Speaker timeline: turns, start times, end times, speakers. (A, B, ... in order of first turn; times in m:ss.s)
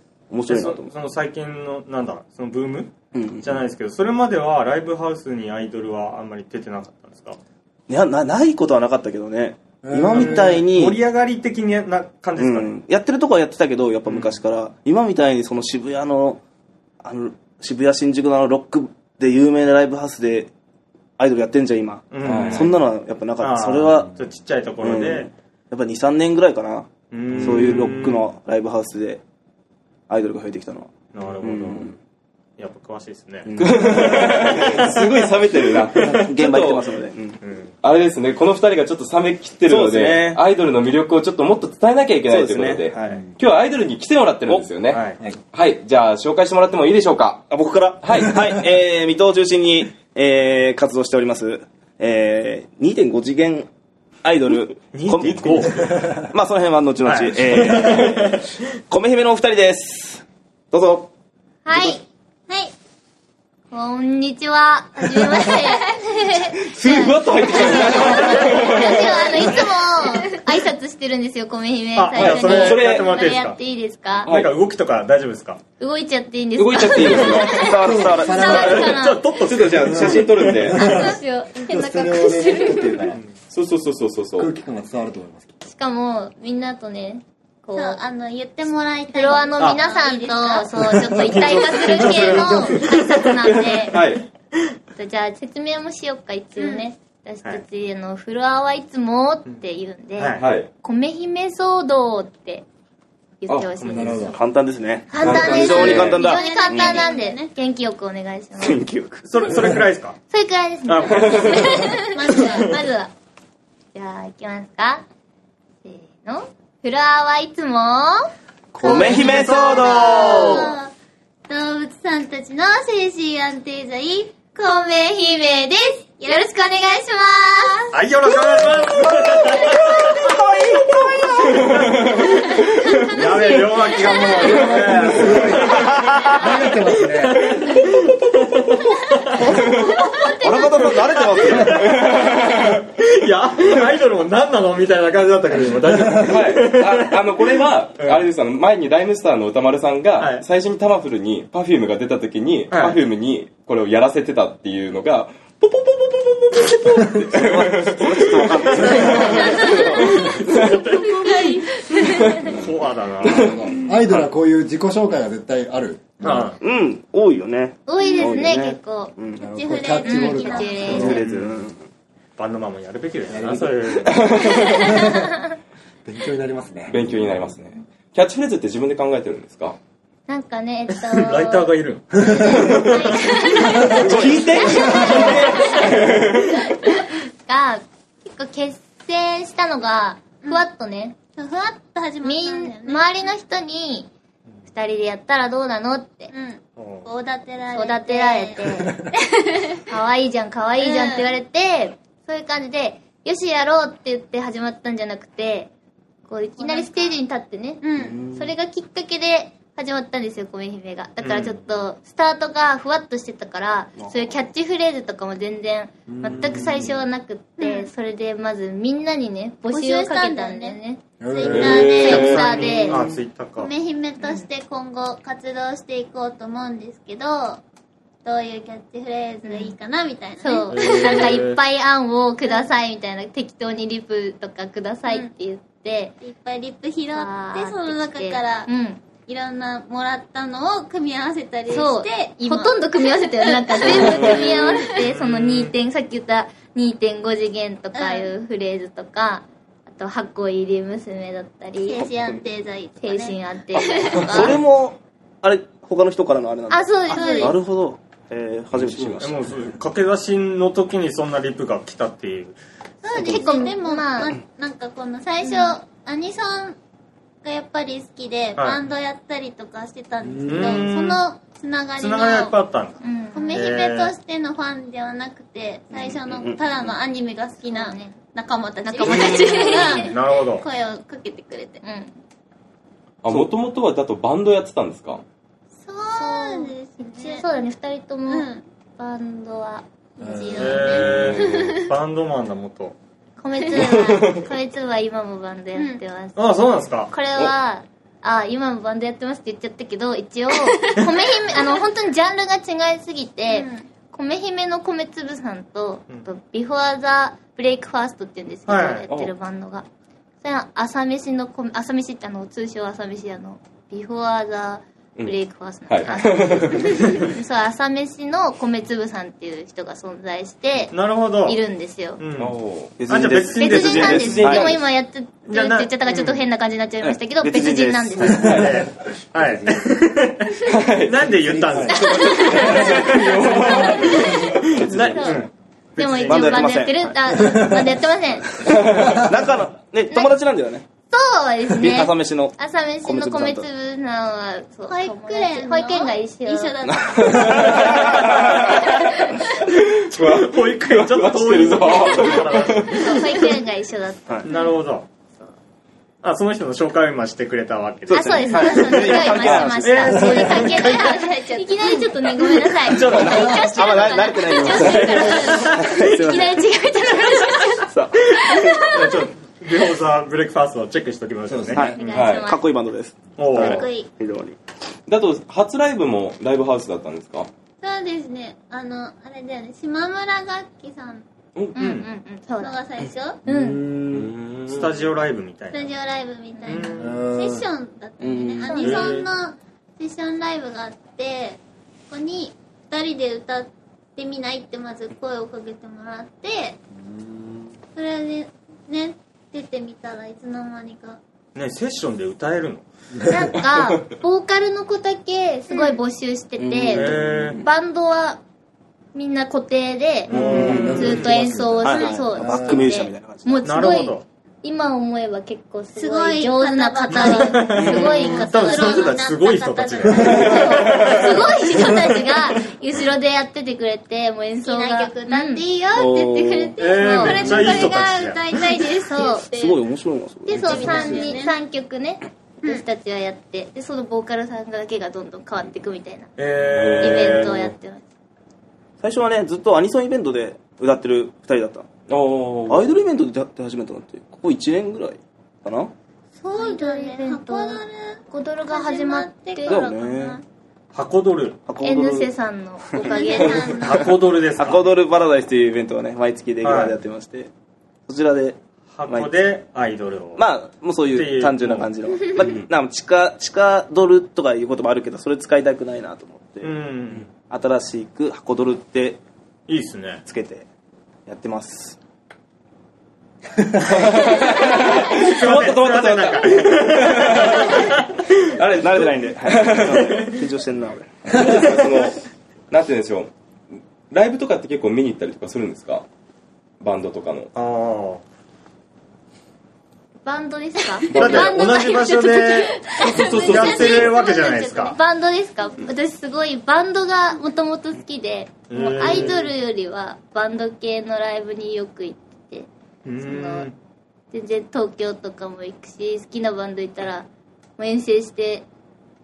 0:00.3-0:00.9 A
0:00.5-0:07.4 B
0:03.1-0:03.6 A
0:07.9-0:11.0 A
0:09.8-0:10.6 C
0:10.1-0:12.7 B
0:12.4-0:16.4 A
0:14.0-0:14.4 B
0:17.0-0:20.5 A
0:21.2-0:24.2 A
0:22.1-0:22.8 B
0:22.2-0:22.7 D
0:23.4-0:25.3 B
0:24.8-0:29.2 A
0:27.1-0:28.3 B
0:27.4-0:27.7 D
0:30.1-0:31.9 A
0:31.1-0:31.9 B
0:32.6-0:33.6 B
0:33.4-0:35.2 A
0:33.6-0:36.9 D
0:34.1-0:36.2 B
0:36.0-0:37.4 A
0:37.4-0:37.7 B
0:37.8-0:47.5 D
0:39.6-0:40.4 A
0:42.3-0:43.3 A
0:44.8-0:45.2 B
0:47.5-0:53.7 A
0:48.0-0:48.5 D
0:54.2-1:01.1 A
0:54.9-0:56.0 B
0:57.0-0:58.5 B
1:01.6-1:02.0 E
1:01.7-1:02.0 A
1:02.5-1:02.7 F
1:03.7-1:14.3 E
1:05.4-1:05.8 F
1:06.6-1:09.3 D
1:08.0-1:10.4 F
1:11.9-1:13.6 B
1:12.1-1:13.2 D
1:14.2-1:15.6 B
1:14.2-1:14.5 D
1:15.8-1:19.3 E
1:16.6-1:17.6 D
1:16.9-1:19.0 A
1:17.6-1:19.0 C
1:18.4-1:20.7 B
1:19.4-1:20.9 D
1:19.8-1:23.2 C
1:20.7-1:23.1 E
1:23.5-1:24.5 D
1:24.4-1:25.5 C
1:25.6-1:28.0 E
1:27.7-1:32.7 F
1:29.1-1:34.0 E
1:30.9-1:33.3 B
1:32.3-1:32.8 C
1:33.4-1:34.2 D
1:34.9-1:42.6 E
1:36.6-1:36.8 F
1:40.2-1:40.5 B
1:40.4-1:40.7 D
1:43.4-1:44.4 E
1:43.8-1:44.4 C
1:44.3-1:47.0 A
1:45.1-1:48.8 E
1:45.2-1:46.2 D
1:45.7-1:47.5 F
1:48.6-1:49.5 A
1:49.2-1:50.2 B
1:50.3-1:53.1 E
1:50.8-1:52.0 B
1:51.1-1:51.5 D
1:52.1-1:52.8 F
1:53.9-1:55.0 E
1:55.8-1:58.3 E
1:58.7-2:00.7 A
1:58.8-2:00.8 B
1:58.8-2:00.9 F
1:58.9-1:59.2 E
2:01.5-2:04.6 F
2:04.6-2:07.9 E
2:06.2-2:06.5 F
2:07.9-2:27.2 B
2:09.1-2:11.1 A
2:11.6-2:12.1 D
2:13.5-2:14.3 E
2:14.3-2:17.6 C
2:19.5-2:19.9 D
2:19.5-2:21.5 E
2:20.2-2:22.0 A
2:21.8-2:22.8 D
2:26.2-2:38.8 D
2:28.0-2:28.3 B
2:30.2-2:30.4 B
2:32.7-2:33.0 B
2:37.2-2:40.2 A
2:38.7-2:41.6 B
2:38.8-2:39.2 C
2:40.6-2:42.5 E
2:40.6-2:42.4 F
2:42.1-2:43.7 B
2:43.2-2:46.5 C
2:46.2-2:46.6 B
2:46.6-2:49.5 A
2:47.8-2:49.1 E
2:48.0-2:48.4 F
2:49.3-2:51.2 F
2:49.4-2:51.3 C
2:50.0-2:51.2 E
2:50.9-2:51.8 A
2:51.0-2:51.6 B
2:52.4-2:54.7 B
2:53.3-2:55.3 C
2:54.1-2:54.8 D
2:56.0-2:57.2 C
2:56.9-2:59.8 D
3:00.3-3:11.2 E
3:01.0-3:04.0 B
3:02.3-3:02.9 C
3:04.0-3:05.9 A
3:04.0-3:06.6 D
3:04.6-3:05.4 C
3:05.5-3:06.0 B
3:11.3-3:13.3 F
3:12.2-3:14.1 E
3:14.6-3:16.3 E
3:16.3-3:19.8 F
3:16.8-3:17.1 B
3:17.7-3:19.0 E
3:19.9-3:25.7 E
3:20.8-3:21.3 F
3:26.3-3:41.0 E
3:26.6-3:27.2 F
3:27.8-3:28.2 F
3:28.0-3:28.5 A
3:31.2-3:31.6 B
3:34.0-3:34.4 A
3:36.1-3:36.9 C
3:37.6-3:37.9 F
3:39.7-3:40.8 F
3:41.2-3:42.1 C
3:41.3-3:42.7 F
3:41.4-3:42.6 D
3:41.9-3:43.0 E
3:42.0-3:43.7 B
3:42.9-3:43.2 A
3:43.6-3:47.6 F
3:44.2-3:44.4 E
3:48.2-3:51.4 F
3:49.4-3:49.7 E
3:50.4-3:56.1 E
3:50.7-3:51.6 B
3:56.2-3:58.7 F
3:57.1-3:59.0 E
3:59.2-4:05.0 F
4:01.7-4:12.1 E
4:04.9-4:05.7 B
4:07.9-4:08.3 F
4:11.8-4:14.5 F
4:13.0-4:14.6 E
4:13.8-4:19.5 A
4:16.7-4:17.6 E
4:17.1-4:17.6 F
4:18.7-4:19.3 D
4:19.2-4:22.6 B
4:23.0-4:26.8 F
4:23.1-4:24.4 E
4:25.4-4:25.8 E
4:27.4-4:32.6 F
4:28.6-4:28.8 B
4:30.2-4:30.8 C
4:30.4-4:31.2 B
4:32.0-4:33.0 B
4:33.0-4:33.8 E
4:33.3-4:41.8 F
4:33.5-4:34.1 B
4:35.9-4:36.9 A
4:37.6-4:38.2 E
4:38.8-4:40.1 E
4:39.0-4:40.6 B
4:41.8-4:42.1 E
4:43.2-4:45.2 D
4:45.8-4:47.5 F
4:46.1-4:50.5 E
4:48.3-4:48.6 F
4:50.2-4:51.9 F
4:50.2-4:51.0 C
4:50.5-4:53.0 B
4:51.3-4:51.6 D
4:53.4-5:09.8 E
4:53.8-4:54.4 D
4:55.7-4:56.0 F
4:56.4-4:57.1 B
5:00.6-5:01.0 F
5:03.5-5:03.9 F
5:08.7-5:09.1 B
5:10.4-5:22.2 E
5:15.9-5:17.3 D
5:20.9-5:21.6 B
5:22.2-5:24.7 B
5:22.4-5:23.0 D
5:23.0-5:24.8 A
5:23.5-5:28.6 E
5:24.3-5:24.7 D
5:25.5-5:26.4 B
5:27.0-5:28.6 A
5:28.4-5:28.8 D
5:28.4-5:36.8 B
5:29.4-5:29.8 C
5:30.6-5:31.3 D
5:31.3-5:34.7 C
5:31.9-5:38.7 E
5:32.5-5:34.2 D
5:34.8-5:35.3 A
5:36.0-5:37.6 A
5:37.4-5:37.7 C
5:38.5-5:40.8 A
5:38.7-5:39.3 D
5:40.1-5:40.3 E
5:41.1-5:46.8 E
5:41.7-5:43.6 A
5:44.9-5:48.2 F
5:46.8-5:48.6 A
5:47.1-5:53.2 D
5:48.1-5:48.6 B
5:49.0-5:49.3 F
5:50.1-5:53.3 B
5:52.3-5:54.8 E
5:54.4-5:55.0 B
5:56.2-6:01.4 B
5:58.1-6:00.7 A
5:58.1-6:09.1 E
6:00.1-6:00.4 C
6:00.8-6:02.2 F
6:02.2-6:03.7 B
6:03.0-6:06.7 A
6:04.8-6:05.9 B
6:07.8-6:08.9 A
6:08.8-6:12.0 B
6:11.5-6:12.0 C
6:11.7-6:14.6 A
6:11.9-6:12.7 E
6:12.0-6:12.5 D
6:13.4-6:13.9 B
6:13.5-6:14.1 F
6:15.1-6:17.5 D
6:17.8-6:21.2 F
6:21.8-6:22.8 E
6:21.8-6:22.1 B
6:22.6-6:23.4 F
6:23.4-6:23.8 E
6:23.5-6:24.3 C
6:24.1-6:24.9 D
6:24.7-6:25.9 B
6:25.7-6:36.8 F
6:26.6-6:26.9 E
6:26.7-6:27.1 B
6:27.0-6:27.7 C
6:28.2-6:29.1 A
6:28.6-6:29.1 E
6:28.8-6:29.3 B
6:36.9-6:37.8 C
6:37.9-6:41.2 F
6:41.5-6:42.8 B
6:43.1-6:43.5 C
6:43.2-6:48.4 E
6:43.7-6:44.0 D
6:45.7-6:46.0 F
6:46.6-6:47.6 A
6:46.9-6:47.6 B
6:49.1-6:59.1 E
6:50.3-6:51.4 B
6:50.3-6:51.2 A
6:50.3-6:53.0 C
6:51.8-6:54.0 A
6:51.9-6:52.2 F
6:53.6-6:54.2 B
6:55.9-7:01.9 F
6:57.1-7:02.1 B
7:00.2-7:05.6 E
7:00.6-7:01.2 D
7:04.6-7:09.8 F
7:05.9-7:06.8 A
7:06.8-7:08.4 B
7:06.9-7:07.8 E
7:09.0-7:09.5 E
7:09.5-7:11.3 A
7:10.4-7:16.3 E
7:10.5-7:11.6 F
7:16.4-7:17.7 B
7:16.7-7:17.5 D
7:17.0-7:18.0 E
7:19.0-7:21.9 A
7:22.1-7:22.9 D
7:22.7-7:25.9 A
7:26.4-7:30.4 F
7:26.5-7:29.9 E
7:29.7-7:30.4 A
7:30.9-7:31.6 B
7:31.6-7:32.3 A
7:31.8-7:34.1 E
7:32.9-7:37.5 A
7:33.0-7:34.2 F
7:33.7-7:34.8 B
7:36.6-7:37.0 B
7:38.1-7:39.3 A
7:38.9-7:40.4 B
7:40.4-7:49.2 A
7:41.1-7:41.9 B
7:42.4-7:42.6 D
7:46.6-7:47.3 B
7:49.7-7:50.2 B
7:50.2-7:50.6 A
7:51.2-7:52.0 A
7:53.8-7:58.0 D
7:54.6-7:58.2 B
7:58.6-8:00.0 D
7:58.8-8:01.7 A
8:00.0-8:00.4 B
8:01.3-8:03.3 D
8:04.1-8:06.0 D
8:06.8-8:07.5 D
8:07.5-8:08.2 B
8:10.2-8:22.7 E
8:11.0-8:11.3 F
8:11.1-8:15.0 B
8:11.1-8:11.5 D
8:12.5-8:14.5 F
8:12.8-8:14.1 D
8:18.7-8:19.5 B
8:23.0-8:23.7 B
8:23.2-8:23.7 E
8:24.3-8:27.3 E
8:27.8-8:28.7 E